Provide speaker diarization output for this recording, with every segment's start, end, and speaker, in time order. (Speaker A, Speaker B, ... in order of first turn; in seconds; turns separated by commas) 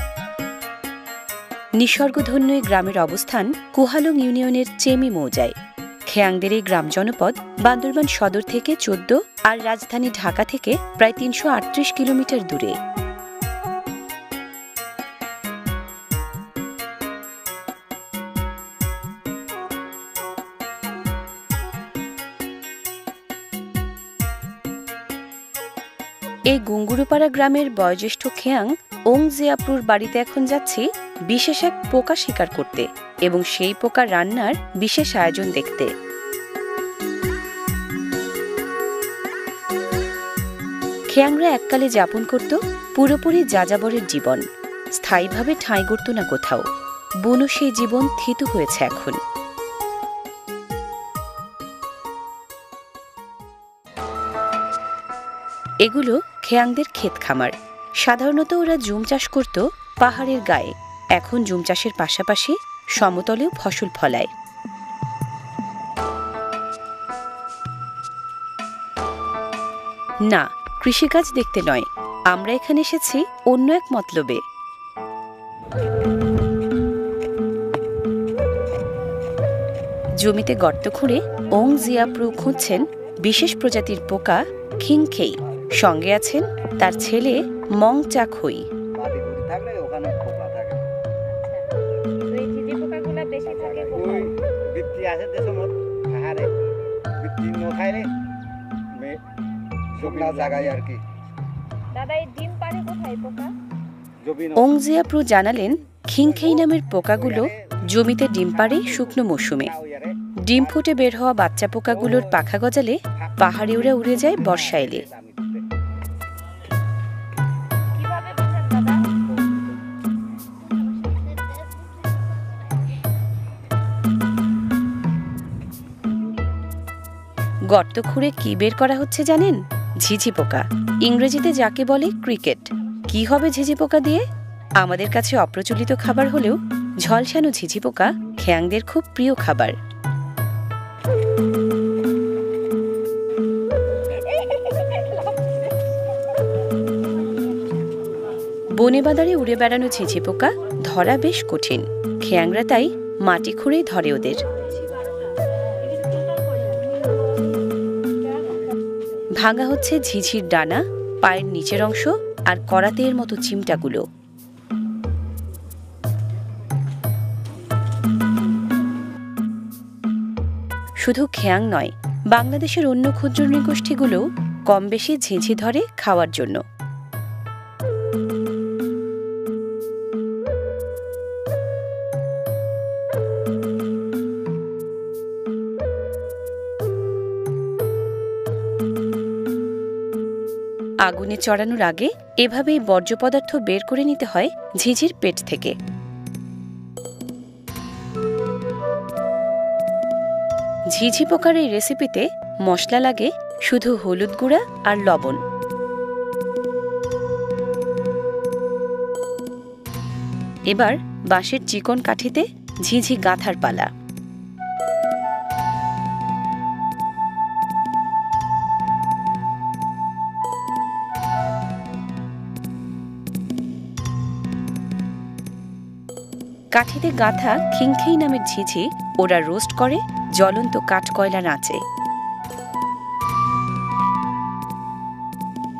Speaker A: 1.8-5.6, Speaker A: 6.1-12.8, Speaker A: 26.5-35.9, Speaker A: 41.1-44.4, Speaker A: 45.0-46.7, Speaker A: 47.2-49.2, Speaker A: 55.8-64.3, Speaker A: 70.2-74.4, Speaker A: 80.2-88.7, Speaker B: 89.0-90.8, Speaker C: 91.3-91.7, Speaker C: 92.2-94.3, Speaker B: 93.6-96.5, Speaker B: 97.2-98.1, Speaker B: 99.9-101.0, Speaker C: 101.9-103.5, Speaker B: 104.2-104.6, Speaker A: 104.5-109.8, Speaker B: 107.4-107.8, Speaker B: 108.7-109.0, Speaker B: 109.6-110.2, Speaker A: 110.4-115.0, Speaker B: 113.3-115.6, Speaker C: 118.0-119.1, Speaker A: 127.7-134.3, Speaker A: 134.8-139.8, Speaker C: 144.3-145.2, Speaker A: 148.7-154.4, Speaker A: 159.3-164.1, Speaker A: 171.0-176.6, Speaker A: 191.0-195.8, Speaker A: 200.9-205.4, Speaker A: 210.7-213.9, Speaker A: 226.7-231.8